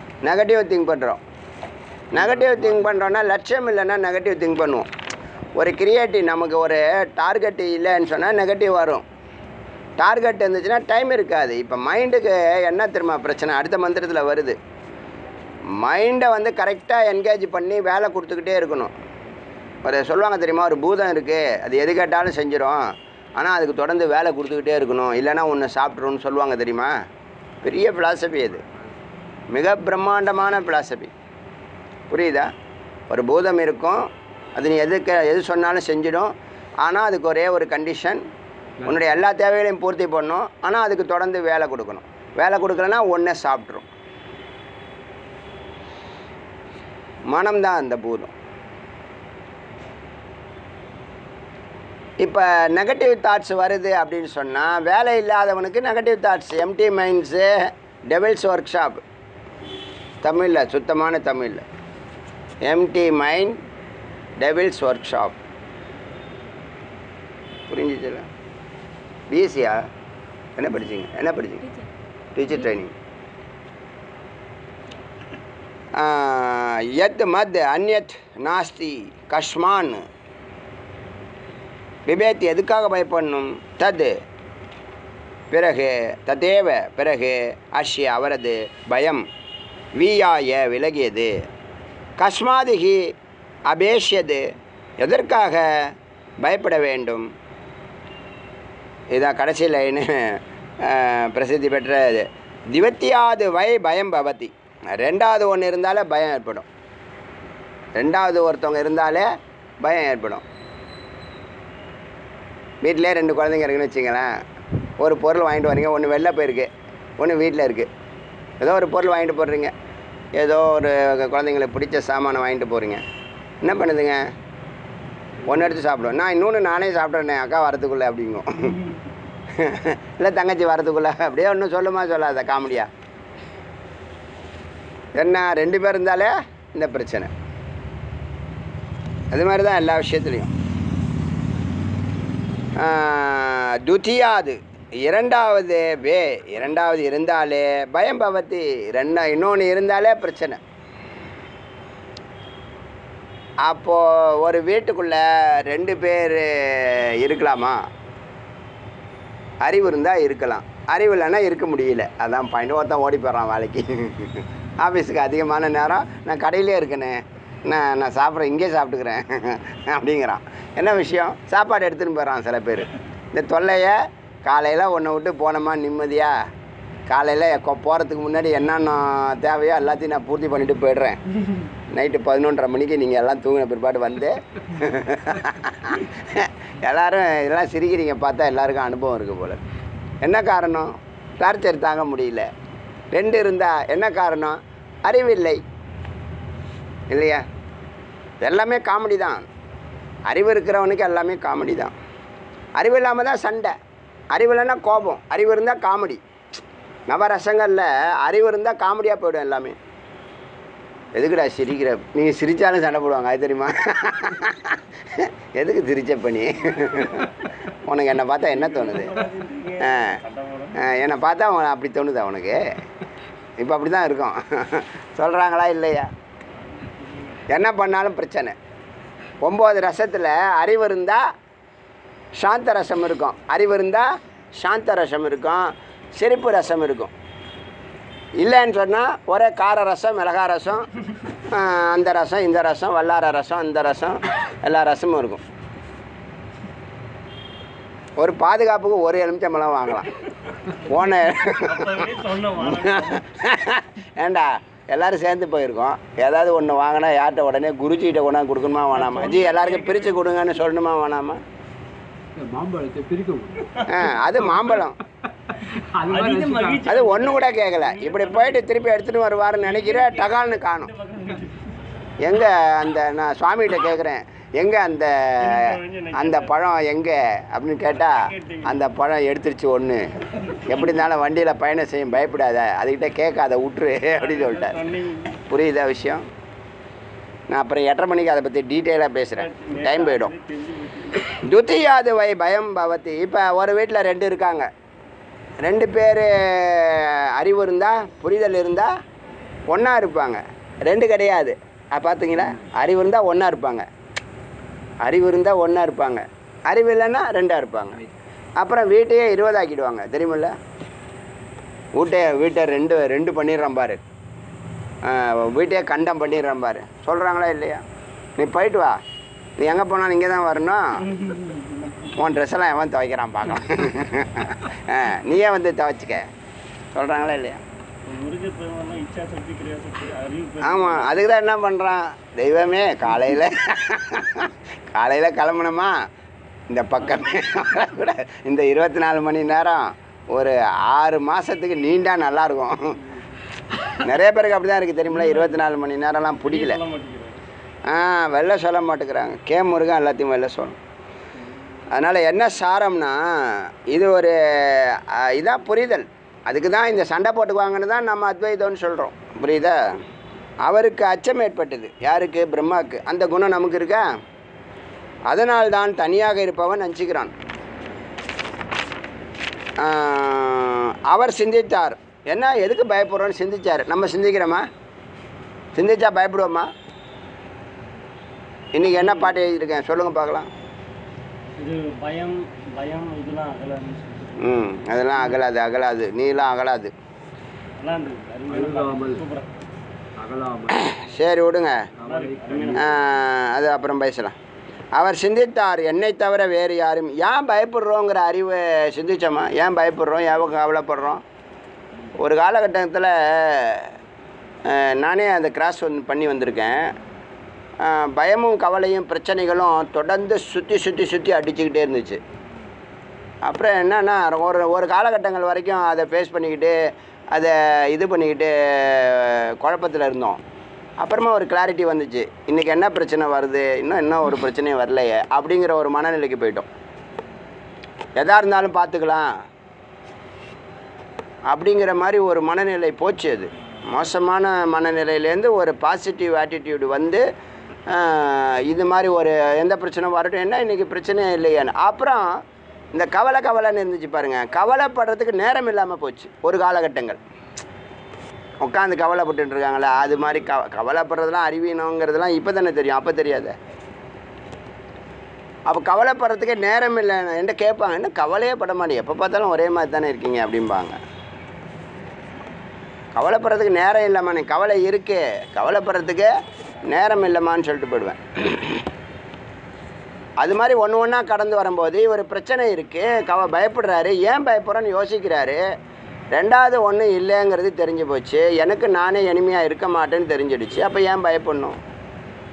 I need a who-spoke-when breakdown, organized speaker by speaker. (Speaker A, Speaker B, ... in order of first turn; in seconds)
Speaker A: 0.2-1.2, 2.1-4.9, 5.6-9.0, 10.0-14.6, 15.7-18.9, 19.8-26.9, 27.6-28.6, 29.5-31.1, 32.1-32.5, 33.1-38.3, 38.9-43.9, 47.3-48.3, 52.2-59.0, 60.2-61.6, 62.6-63.6, 64.4-65.4, 67.7-68.3, 69.3-69.9, 70.6-71.7, 72.3-72.9, 76.0-80.0, 82.1-84.2, 85.5-89.2, 90.0-91.5, 92.2-93.1, 93.7-94.5, 95.0-97.3, 99.1-106.7, 108.0-109.3, 109.8-110.4, 112.8-114.4, 115.0-117.9, 118.6-119.7, 120.4-123.0, 123.6-124.3, 125.5-128.8, 129.6-132.9, 135.2-137.3, 139.3-140.5, 142.8-150.6, 153.7-157.8, 159.6-176.4, 177.1-181.2, 181.9-189.6, 190.2-192.5, 193.1-195.6, 197.1-197.4, 198.4-199.5, 200.3-201.9, 202.8-203.8, 204.3-206.2, 207.1-209.8, 211.2-219.2, 219.8-220.2, 220.8-222.8, 223.6-226.1, 227.5-228.6, 229.4-231.3, 232.4-237.1, 238.4-240.9, 241.5-245.4, 248.2-250.1, 250.7-252.1, 252.7-261.4, 263.9-265.0, 266.9-270.9, 272.2-284.9, 285.4-286.3, 287.5-290.3, 291.3-294.7, 295.6-298.9, 299.7-303.9, 305.0-308.0, 308.6-310.6, 311.9-314.0, 315.0-317.8, 318.4-319.0, 319.6-321.1, 322.1-326.3, 326.9-327.6, 330.6-336.0, 336.7-343.0, 343.9-346.8, 347.9-350.8, 351.9-360.0, 360.6-364.1, 365.3-367.3, 369.8-374.7, 375.8-376.7, 378.8-380.5, 384.4-386.9, 390.8-391.9, 392.8-394.4, 394.9-401.2, 402.2-403.9, 404.7-406.9, 407.8-412.2, 413.4-420.4, 421.0-426.7, 428.2-429.3, 431.5-437.2, 437.9-442.4, 442.9-447.2, 448.6-453.6, 455.7-461.0, 463.1-466.3, 466.9-468.8, 470.4-475.6, 476.3-481.8
Speaker B: 2.1-3.0, 262.4-267.0, 388.5-389.3, 390.2-390.9, 391.9-393.0
Speaker C: 218.5-220.8, 226.8-227.4, 251.6-253.2, 259.0-260.1, 266.1-268.6, 269.6-271.8, 275.4-276.5, 278.0-278.8, 284.2-285.4, 289.4-291.4, 321.1-321.8, 328.1-331.2, 346.5-347.4, 379.1-379.3, 381.6-384.6, 387.8-389.5, 392.0-392.9